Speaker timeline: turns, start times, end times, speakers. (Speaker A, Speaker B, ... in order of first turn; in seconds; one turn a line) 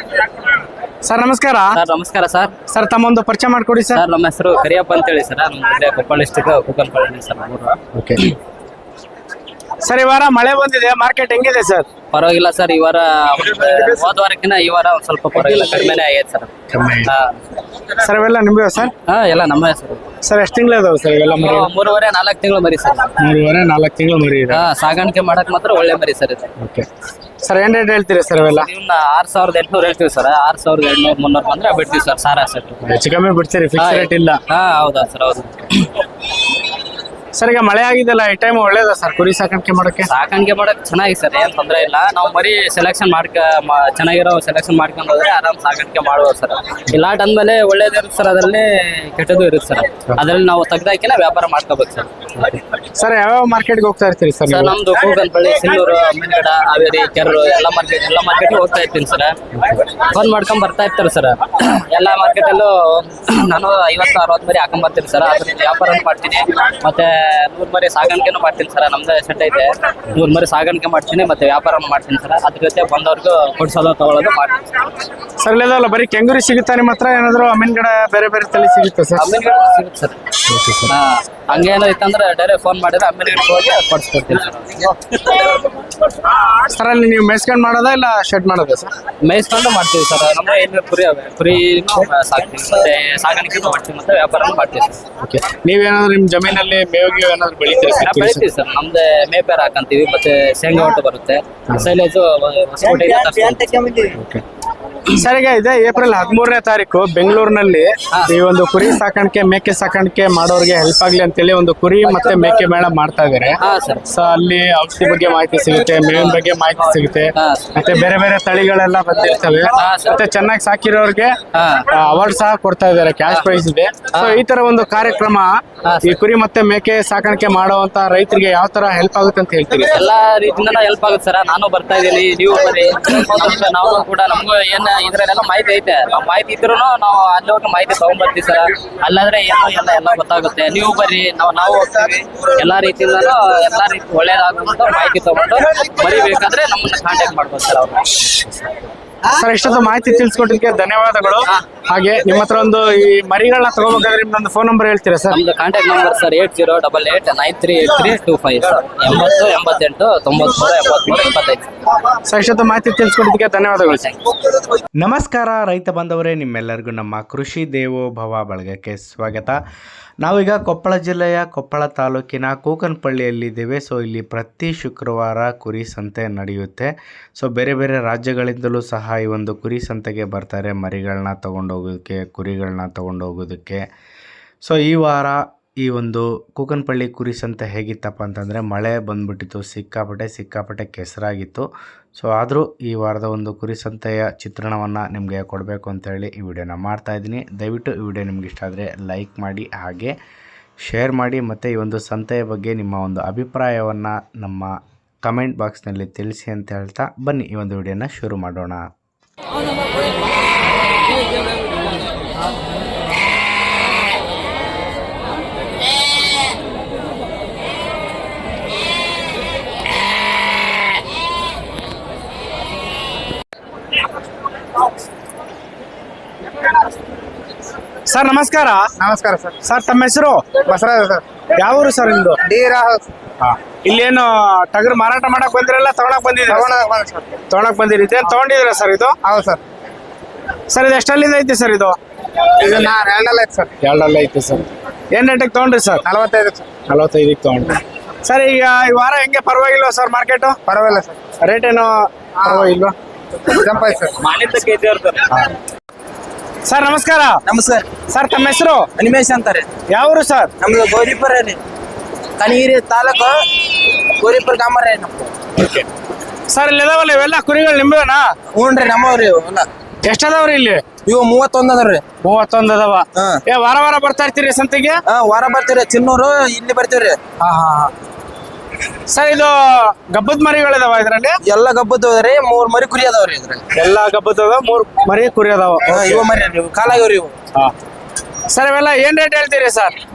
Speaker A: 1.1-1.7
Speaker B: 1.7-2.5
Speaker A: 2.7-4.0
Speaker B: 3.9-7.8
Speaker A: 9.8-11.8
Speaker B: 12.1-16.5
Speaker A: 13.4-14.0
Speaker A: 16.7-17.1
Speaker B: 17.0-17.4
Speaker A: 18.0-18.9
Speaker B: 19.1-20.0
Speaker A: 20.2-21.7
Speaker B: 21.3-23.1
Speaker A: 23.2-24.6
Speaker B: 24.5-26.4
Speaker A: 26.6-26.9
Speaker A: 27.4-28.7
Speaker B: 28.5-32.8
Speaker A: 32.9-34.4
Speaker B: 33.8-35.9
Speaker A: 37.3-40.1
Speaker B: 40.0-52.6
Speaker A: 53.0-54.8
Speaker B: 54.5-74.7
Speaker A: 75.4-79.2
Speaker B: 79.1-80.2
Speaker A: 80.5-80.9
Speaker B: 80.8-85.7
Speaker A: 86.5-88.9
Speaker B: 89.2-95.0
Speaker A: 95.2-98.4
Speaker B: 97.9-104.1
Speaker A: 105.1-113.6
Speaker B: 113.6-114.0
Speaker A: 114.1-121.3
Speaker B: 116.0-116.4
Speaker B: 117.3-117.7
Speaker B: 119.6-120.2
Speaker B: 121.5-121.9
Speaker A: 121.9-125.5
Speaker B: 124.1-124.4
Speaker B: 125.8-126.2
Speaker A: 126.0-129.9
Speaker B: 129.8-148.4
Speaker C: 141.7-142.1
Speaker A: 149.2-155.4
Speaker B: 155.3-161.7
Speaker A: 162.3-164.1
Speaker D: 165.1-169.6
Speaker D: 170.2-183.8
Speaker D: 184.6-200.1
Speaker D: 200.8-208.9
Speaker A: 228.1-228.9
Speaker E: 229.0-229.6
Speaker A: 229.6-230.7
Speaker E: 230.7-231.2
Speaker A: 231.5-232.4
Speaker E: 232.4-233.0
Speaker A: 233.4-236.7
Speaker E: 236.4-237.3
Speaker A: 237.5-239.2
Speaker E: 239.2-239.6
Speaker A: 240.7-242.0
Speaker E: 242.6-243.7
Speaker A: 243.8-246.0
Speaker E: 246.0-246.7
Speaker A: 246.8-250.6
Speaker E: 250.7-251.2
Speaker A: 251.4-252.9
Speaker E: 252.4-252.7
Speaker E: 253.5-254.1
Speaker B: 254.0-255.4
Speaker A: 256.6-257.4
Speaker C: 257.5-258.0
Speaker A: 258.1-258.9
Speaker C: 259.0-259.7
Speaker A: 259.9-260.5
Speaker C: 260.6-261.6
Speaker C: 262.4-263.4
Speaker C: 264.2-265.3
Speaker A: 265.6-265.9
Speaker A: 266.5-268.2
Speaker C: 268.6-269.6
Speaker A: 270.0-270.8
Speaker C: 271.1-272.0
Speaker A: 272.2-275.0
Speaker C: 275.1-277.2
Speaker A: 277.4-277.9
Speaker A: 279.1-281.4
Speaker C: 281.4-283.6
Speaker A: 283.7-286.2
Speaker C: 285.9-287.3
Speaker A: 288.5-289.9